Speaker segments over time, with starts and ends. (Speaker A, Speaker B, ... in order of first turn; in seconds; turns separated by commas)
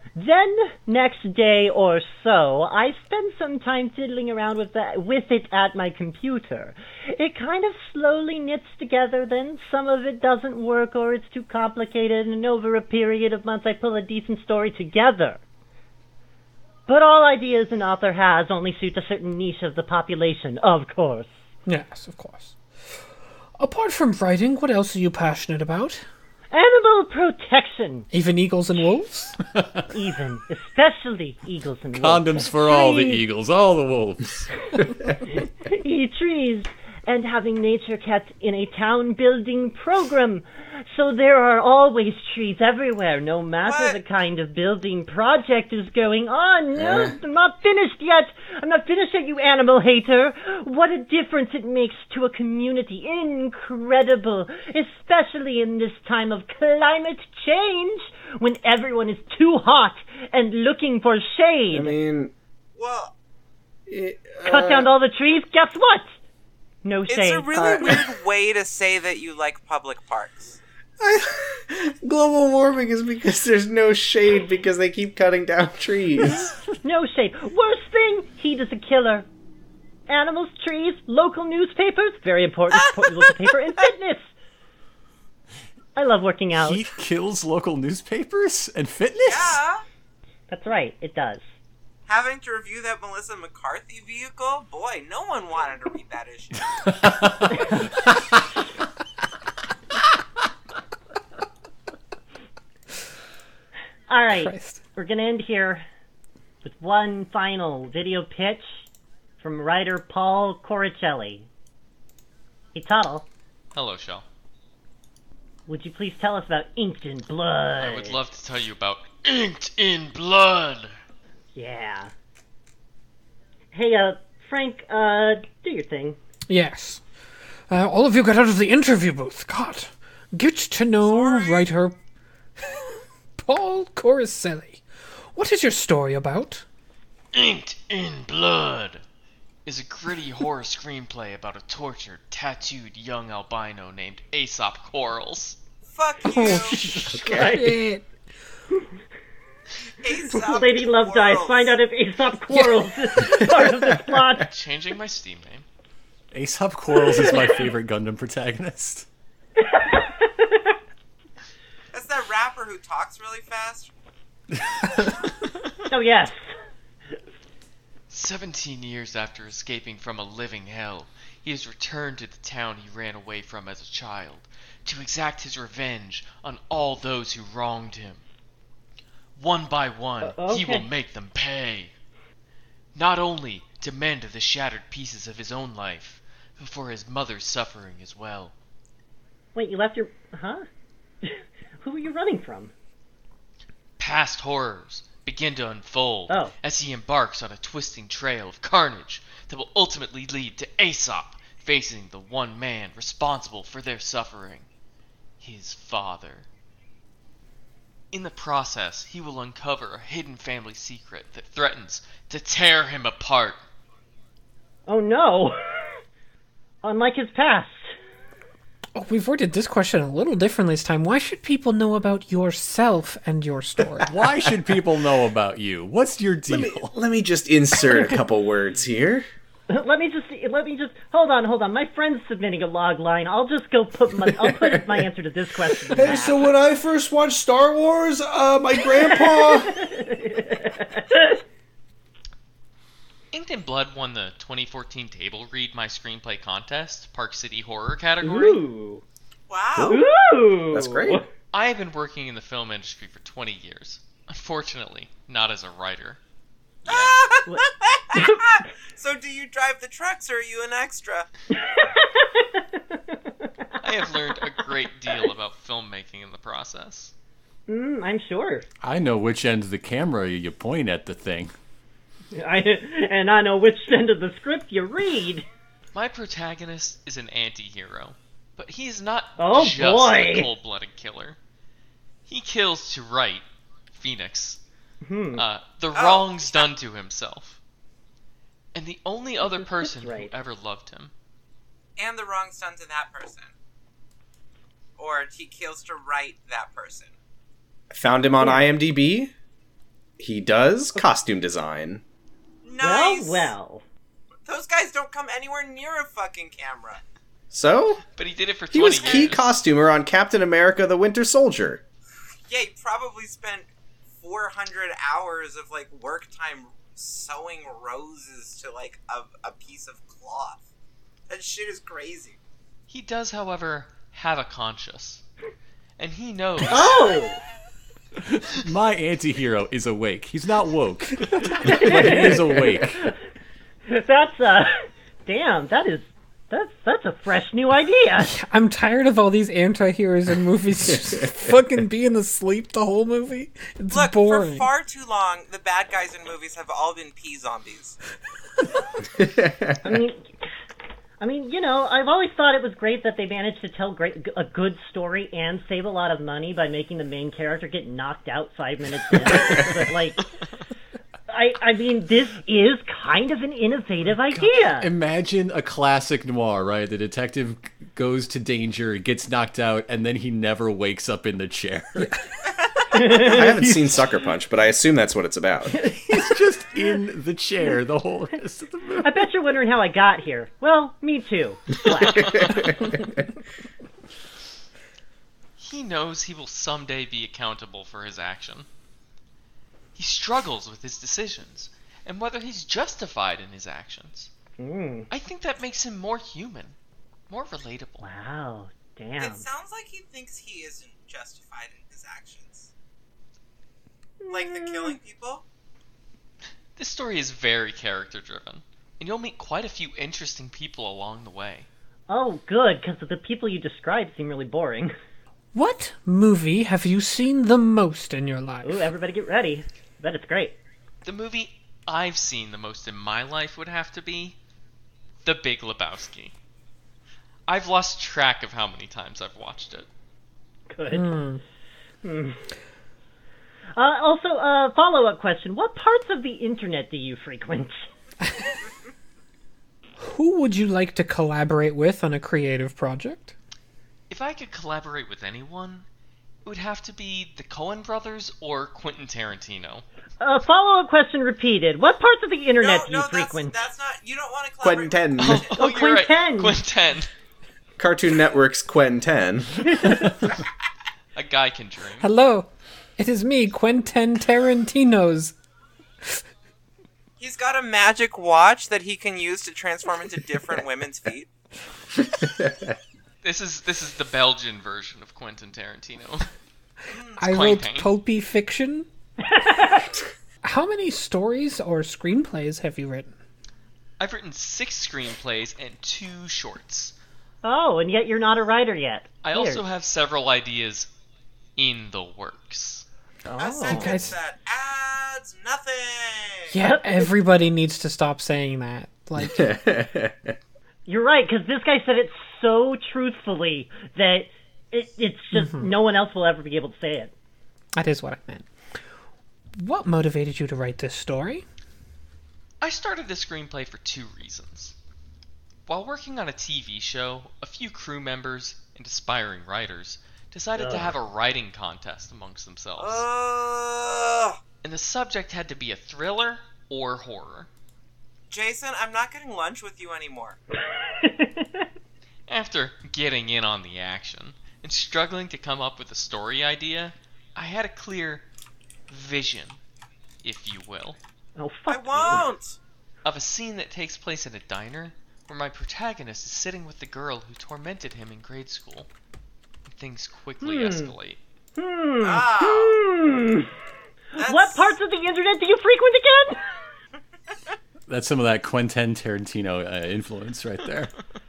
Speaker A: 0.1-15.4, Speaker A: 16.9-21.3, Speaker B: 21.6-22.6, Speaker B: 23.6-26.0, Speaker A: 26.5-28.1, Speaker B: 28.1-29.4, Speaker C: 29.5-29.8, Speaker A: 29.9-33.2, Speaker C: 31.9-34.5, Speaker A: 35.3-61.9, Speaker D: 43.6-44.0, Speaker E: 46.8-47.1, Speaker E: 61.7-62.3, Speaker D: 62.8-63.1, Speaker E: 63.9-64.9, Speaker A: 64.4-66.1, Speaker A: 66.8-68.1, Speaker D: 67.1-70.6, Speaker E: 71.0-76.5, Speaker A: 76.8-79.3, Speaker A: 80.1-84.3, Speaker A: 85.9-86.9, Speaker C: 86.5-89.6, Speaker D: 89.2-89.8, Speaker A: 90.5-91.4, Speaker D: 92.1-96.7, Speaker C: 96.8-97.6, Speaker A: 97.5-98.0, Speaker A: 104.1-105.8, Speaker B: 104.3-104.8, Speaker A: 106.6-108.8, Speaker A: 109.4-111.5, Speaker A: 112.7-113.3, Speaker F: 113.7-114.2, Speaker A: 115.7-118.2, Speaker F: 117.8-121.0, Speaker A: 121.5-122.1, Speaker A: 123.7-126.2, Speaker B: 126.5-127.0, Speaker B: 127.7-132.0, Speaker D: 131.0-131.7, Speaker B: 133.4-134.8, Speaker B: 135.3-136.6, Speaker F: 137.3-139.0, Speaker F: 139.7-145.6, Speaker D: 145.8-146.8, Speaker B: 146.3-148.1, Speaker A: 146.4-147.8, Speaker E: 147.1-147.6, Speaker D: 149.8-151.8, Speaker A: 150.3-154.5, Speaker E: 153.3-154.3, Speaker F: 154.5-155.6, Speaker C: 156.3-159.1, Speaker A: 156.9-157.7, Speaker A: 159.6-160.7, Speaker D: 161.9-163.9, Speaker C: 164.6-165.2, Speaker A: 165.9-166.4, Speaker F: 168.1-178.2, Speaker F: 179.3-181.9, Speaker A: 180.2-180.8, Speaker F: 182.9-188.5, Speaker A: 189.5-190.7, Speaker A: 191.2-192.7, Speaker F: 194.0-204.7, Speaker F: 205.4-206.5, Speaker F: 208.1-213.6, Speaker A: 214.9-216.0, Speaker A: 216.8-217.9, Speaker B: 218.9-224.1, Speaker C: 224.1-226.9, Speaker E: 224.2-224.5, Speaker E: 226.5-229.3, Speaker A: 229.7-236.4, Speaker E: 234.3-235.1, Speaker E: 235.8-239.8, Speaker A: 238.9-241.4, Speaker F: 243.3-248.6, Speaker A: 248.2-249.0, Speaker D: 249.5-250.0, Speaker E: 249.8-250.0, Speaker A: 249.9-251.2, Speaker E: 250.7-251.2, Speaker F: 251.5-256.2, Speaker F: 256.9-257.1, Speaker D: 256.9-261.3, Speaker A: 257.5-258.4, Speaker A: 261.5-263.5, Speaker F: 263.8-267.1, Speaker A: 267.7-268.7, Speaker C: 268.8-271.5, Speaker A: 272.3-275.4, Speaker F: 275.9-281.4, Speaker A: 279.4-280.5, Speaker F: 282.3-284.6, Speaker A: 285.0-285.4, Speaker F: 285.3-287.6, Speaker D: 285.9-286.7, Speaker F: 288.7-291.1, Speaker A: 289.4-290.3, Speaker D: 292.0-293.5, Speaker D: 295.0-297.1, Speaker E: 297.9-299.3, Speaker A: 298.4-298.6, Speaker E: 300.2-302.0, Speaker D: 302.6-303.5, Speaker A: 302.8-303.8, Speaker D: 304.4-307.0, Speaker E: 307.5-308.0, Speaker F: 308.2-309.4, Speaker E: 308.7-311.8, Speaker D: 309.0-309.4, Speaker D: 312.5-313.7, Speaker D: 314.2-320.6, Speaker D: 321.3-322.4, Speaker F: 322.9-325.2, Speaker F: 326.0-327.2, Speaker A: 326.7-327.4, Speaker C: 328.2-333.0, Speaker A: 331.5-333.1, Speaker E: 332.6-332.8, Speaker A: 333.9-338.3, Speaker B: 338.2-344.7, Speaker E: 340.8-341.5, Speaker D: 343.9-348.0, Speaker E: 349.2-349.8, Speaker A: 349.8-350.2, Speaker A: 351.2-360.3, Speaker A: 361.3-364.9, Speaker C: 364.3-372.2, Speaker A: 372.9-373.5, Speaker C: 373.0-373.8, Speaker E: 373.1-375.7, Speaker A: 375.9-376.2, Speaker C: 376.1-379.1, Speaker A: 379.0-383.0, Speaker F: 381.8-382.7, Speaker E: 382.0-383.2, Speaker F: 385.6-388.7, Speaker F: 389.9-394.3, Speaker A: 394.6-395.1, Speaker F: 395.1-396.7, Speaker F: 397.3-398.1, Speaker A: 398.0-399.4, Speaker D: 399.2-402.7, Speaker A: 404.2-405.0, Speaker D: 404.3-405.4, Speaker F: 406.8-411.7, Speaker A: 412.1-414.9, Speaker B: 415.5-418.9, Speaker A: 418.6-420.6, Speaker F: 421.0-424.4, Speaker F: 425.2-426.3, Speaker F: 427.5-429.9, Speaker A: 430.7-431.2, Speaker B: 430.9-431.4, Speaker A: 432.0-432.4, Speaker A: 433.8-437.9, Speaker B: 440.0-443.3, Speaker F: 444.1-445.9, Speaker F: 446.4-449.8, Speaker A: 450.2-453.6, Speaker D: 452.6-455.5, Speaker E: 454.6-455.5, Speaker F: 455.2-457.1, Speaker A: 455.5-456.6, Speaker E: 457.8-460.0, Speaker F: 461.1-462.1, Speaker B: 462.0-465.3, Speaker D: 467.2-471.3, Speaker E: 472.0-472.8, Speaker F: 473.2-476.3, Speaker D: 476.9-477.2, Speaker F: 477.2-477.9, Speaker B: 477.2-478.9, Speaker A: 479.2-479.9, Speaker B: 480.4-483.1, Speaker F: 484.0-486.9, Speaker A: 487.4-489.6, Speaker F: 489.2-490.9, Speaker F: 491.6-492.9, Speaker A: 493.2-494.1, Speaker D: 493.4-496.5, Speaker B: 493.7-494.1, Speaker B: 496.5-499.6, Speaker A: 496.6-497.1, Speaker E: 499.2-500.4, Speaker A: 500.9-507.1, Speaker B: 505.3-505.7, Speaker B: 507.7-508.5, Speaker B: 509.6-511.4, Speaker F: 512.6-514.7, Speaker F: 515.7-523.0, Speaker A: 520.5-521.0, Speaker D: 522.8-524.4, Speaker F: 524.6-527.5, Speaker D: 528.3-530.4, Speaker A: 530.7-531.6, Speaker F: 532.3-538.2, Speaker F: 538.9-539.6, Speaker F: 540.2-541.0, Speaker A: 541.4-542.3, Speaker D: 541.7-542.6, Speaker F: 543.0-548.9, Speaker F: 549.7-551.2, Speaker A: 550.4-550.9, Speaker A: 551.5-553.5, Speaker D: 552.0-552.8, Speaker A: 554.1-556.4, Speaker D: 554.2-554.7, Speaker C: 557.9-560.9